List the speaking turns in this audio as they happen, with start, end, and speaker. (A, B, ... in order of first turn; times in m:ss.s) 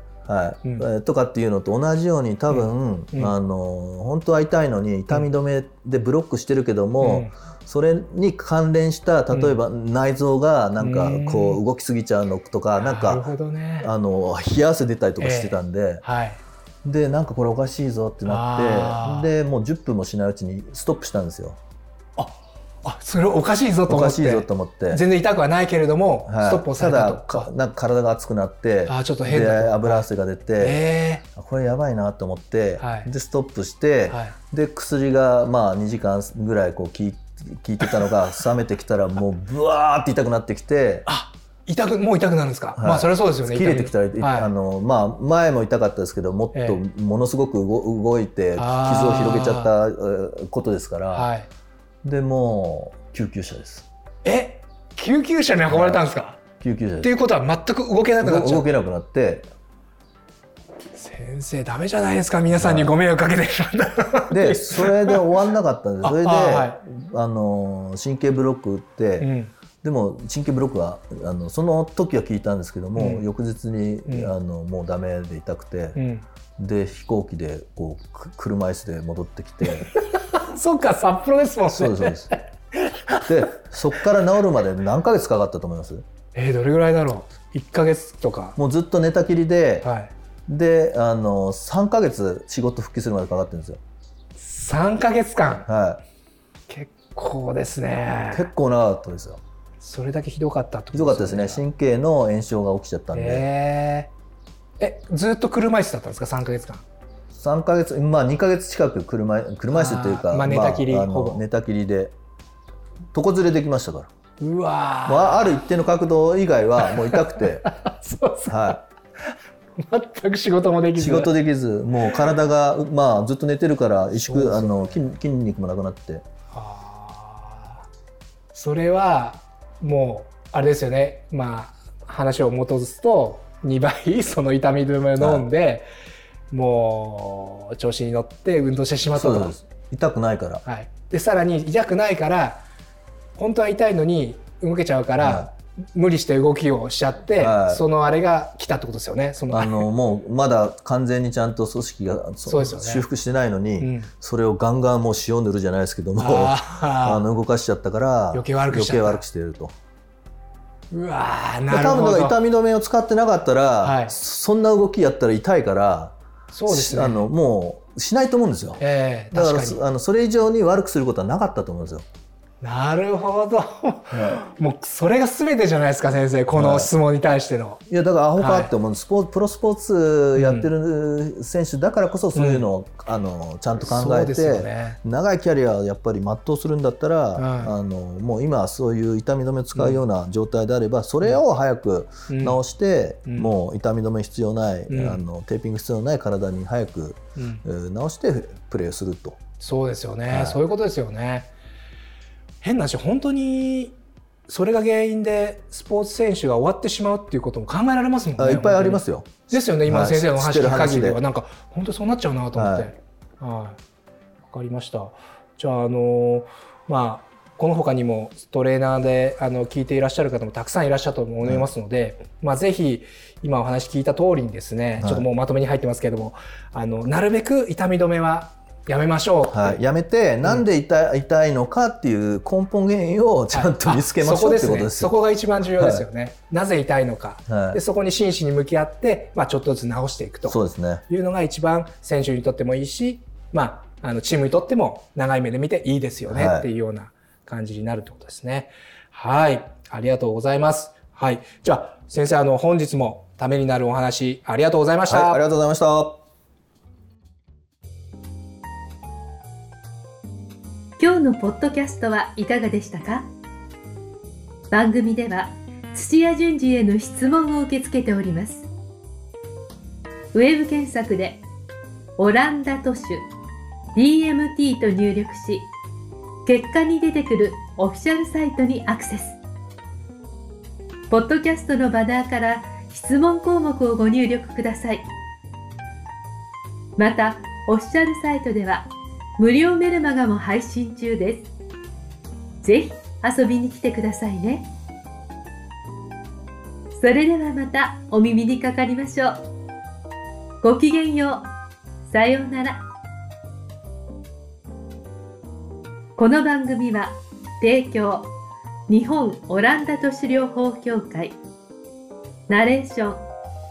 0:00.2-0:13.2 A
0:02.5-0:03.3 B
0:07.0-0:07.3 B
0:09.3-0:09.6 B
0:10.8-0:11.6 B
0:12.8-0:13.9 B
0:13.8-0:16.0 A
0:15.2-0:16.4 B
0:16.8-0:21.6 A
0:18.2-0:19.3 B
0:22.2-0:27.5 B
0:23.9-0:25.0 A
0:26.2-0:30.8 A
0:28.8-0:30.0 B
0:30.6-0:31.2 B
0:31.3-0:41.0 A
0:32.8-0:33.1 B
0:34.1-0:34.4 B
0:41.0-0:44.5 B
0:42.8-0:51.3 A
0:46.5-0:46.8 B
0:48.6-0:49.7 B
0:51.1-0:51.5 B
0:52.0-0:53.9 A
0:54.2-0:56.4 B
0:55.7-0:56.0 A
0:56.6-0:57.1 A
0:57.0-0:58.7 B
0:58.2-0:59.5 A
1:00.9-1:05.3 B
1:02.5-1:02.9 A
1:04.3-1:09.3 A
1:06.0-1:06.8 B
1:09.2-1:09.5 B
1:09.8-1:16.0 A
1:13.0-1:13.2 B
1:14.1-1:14.3 B
1:16.0-1:16.2 B
1:16.6-1:19.9 A
1:19.9-1:23.3 B
1:21.7-1:22.3 A
1:23.2-1:26.0 A
1:26.3-1:28.6 B
1:28.6-1:29.9 A
1:29.8-1:30.1 B
1:30.5-1:33.8 A
1:34.4-1:35.7 B
1:35.6-1:36.0 A
1:36.7-1:38.5 B
1:38.3-1:39.4 A
1:39.8-1:41.6 B
1:40.9-1:43.4 A
1:43.1-1:44.1 B
1:44.8-1:46.8 B
1:47.3-1:52.1 A
1:49.7-1:51.4 B
1:53.1-1:54.1 A
1:54.4-1:55.6 B
1:55.0-1:57.7 A
1:56.8-2:01.3 B
1:58.5-1:58.8 A
2:01.0-2:06.2 A
2:04.1-2:05.0 B
2:06.5-2:07.8 B
2:08.5-2:15.9 B
2:15.2-2:15.5 A
2:16.5-2:19.6 B
2:19.1-2:20.6 A
2:20.6-2:22.6 B
2:23.4-2:29.9 B
2:25.2-2:25.5 A
2:27.4-2:27.8 A
2:29.5-2:39.7 A
2:32.4-2:33.0 B
2:33.8-2:34.1 B
2:36.2-2:37.2 B
2:38.3-2:39.2 B
2:40.9-2:42.4 B
2:41.7-2:46.2 A
2:43.8-2:44.2 B
2:46.5-2:47.3 B
2:46.7-2:48.8 A
2:48.8-2:49.8 B
2:49.3-2:52.0 A
2:52.6-2:57.8 B
2:54.1-2:54.4 A
2:56.5-2:56.9 A
2:57.9-3:19.4 A
2:58.4-2:58.7 B
3:00.4-3:00.7 B
3:02.3-3:02.7 B
3:03.8-3:05.0 B
3:07.4-3:07.7 B
3:09.7-3:10.0 B
3:12.3-3:12.6 B
3:13.2-3:13.5 B
3:14.9-3:15.2 B
3:17.4-3:17.6 B
3:19.6-3:21.5 B
3:20.3-3:20.6 A
3:22.6-3:24.0 B
3:24.5-3:33.8 B
3:28.4-3:31.2 A
3:32.6-3:32.9 A
3:34.5-3:49.8 B
3:45.0-3:45.3 A
3:49.5-3:55.1 A
3:53.5-4:15.4 B
3:55.8-3:56.0 A
3:57.5-3:57.8 A
4:00.5-4:01.0 A
4:06.3-4:06.7 A
4:15.1-4:16.2 A
4:21.0-4:23.3 C
4:24.7-4:28.7 C
4:30.3-4:31.4 C
4:32.2-4:33.3 C
4:33.9-4:35.7 C
4:36.4-4:39.4 C
4:41.1-4:45.1 C
4:47.0-4:51.5 C
4:52.6-4:54.7 C
4:56.9-4:59.4 C
5:00.6-5:01.5 C
5:02.1-5:02.8 C
5:06.2-5:08.3 C
5:08.9-5:11.4 C
5:12.5-5:13.2 C